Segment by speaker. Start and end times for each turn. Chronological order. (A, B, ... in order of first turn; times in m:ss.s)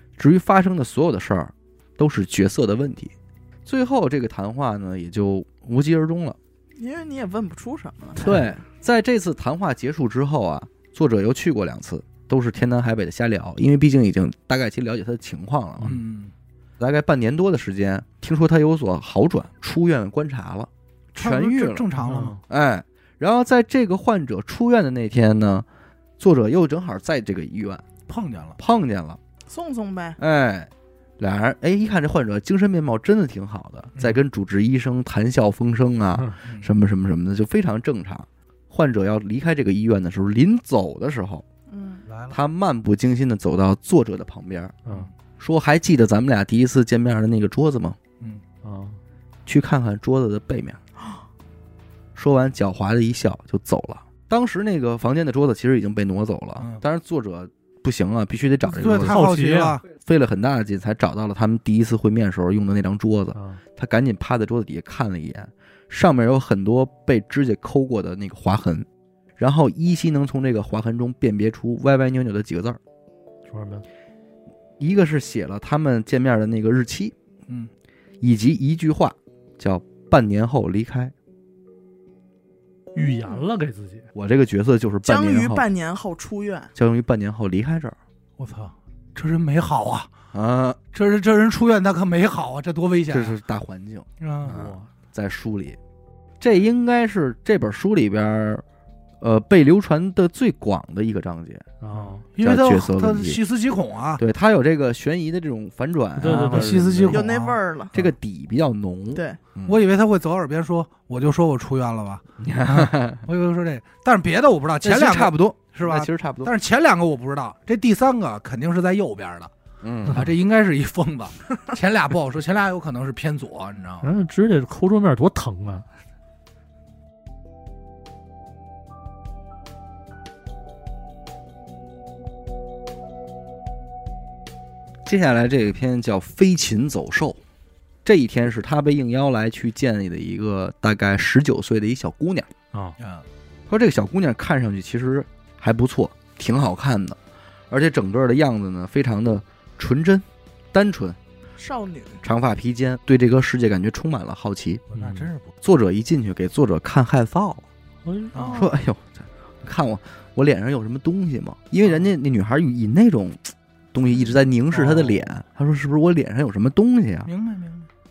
0:00.2-0:03.1 A
0:03.6-0:06.4 A
0:06.8-0:08.4 B
0:08.2-0:16.0 A
0:15.8-0:16.3 C
0:16.8-0:21.9 A
0:21.1-0:22.4 C
0:22.0-0:22.4 D
0:22.5-0:25.6 A
0:26.2-0:27.8 A
0:28.1-0:28.6 C
0:28.6-0:29.2 A
0:29.5-0:30.2 B
0:30.2-0:41.4 A
0:41.7-0:42.0 B
0:42.1-0:42.4 C
0:42.3-0:44.8 A
0:45.4-0:48.0 A
0:48.6-0:49.0 D
0:49.4-0:50.8 A
0:52.1-0:59.2 A
0:56.6-0:56.8 C
0:58.7-0:59.8 C
0:58.8-0:59.8 D
0:59.9-1:08.8 A
1:03.3-1:03.6 D
1:09.4-1:12.8 A
1:13.5-1:13.8 D
1:14.8-1:17.1 A
1:18.2-1:21.1 A
1:22.9-1:24.1 D
1:23.0-1:23.4 B
1:24.1-1:25.6 A
1:25.0-1:26.7 B
1:26.8-1:28.0 A
1:28.4-1:30.1 C
1:30.3-1:30.8 A
1:30.9-1:33.3 C
1:33.1-1:35.8 A
1:34.2-1:34.6 C
1:34.4-1:34.9 D
1:36.4-1:38.6 A
1:39.2-1:41.6 A
1:41.8-1:42.2 D
1:41.9-1:44.2 C
1:42.4-1:43.4 A
1:44.2-1:47.2 A
1:46.2-1:47.1 D
1:46.2-1:47.6 C
1:47.1-1:47.9 B
1:47.9-1:49.8 A
1:49.1-1:49.4 B
1:49.6-1:59.5 C
1:52.4-1:53.2 A
1:54.8-1:56.5 A
1:59.8-2:00.3 A
2:00.1-2:04.1 C
2:04.0-2:05.9 D
2:15.0-2:17.4 A
2:18.0-2:22.5 A
2:23.0-2:23.2 C
2:23.7-2:27.2 A
2:27.7-2:31.2 A
2:31.6-2:32.2 B
2:32.2-2:34.8 A
2:34.9-2:35.5 C
2:34.9-2:35.3 D
2:35.6-2:37.6 A
2:38.0-2:38.3 D
2:38.3-2:38.7 C
2:38.3-2:38.7 B
2:38.5-2:47.3 A
2:41.8-2:42.1 C
2:44.8-2:45.1 C
2:47.2-2:47.9 C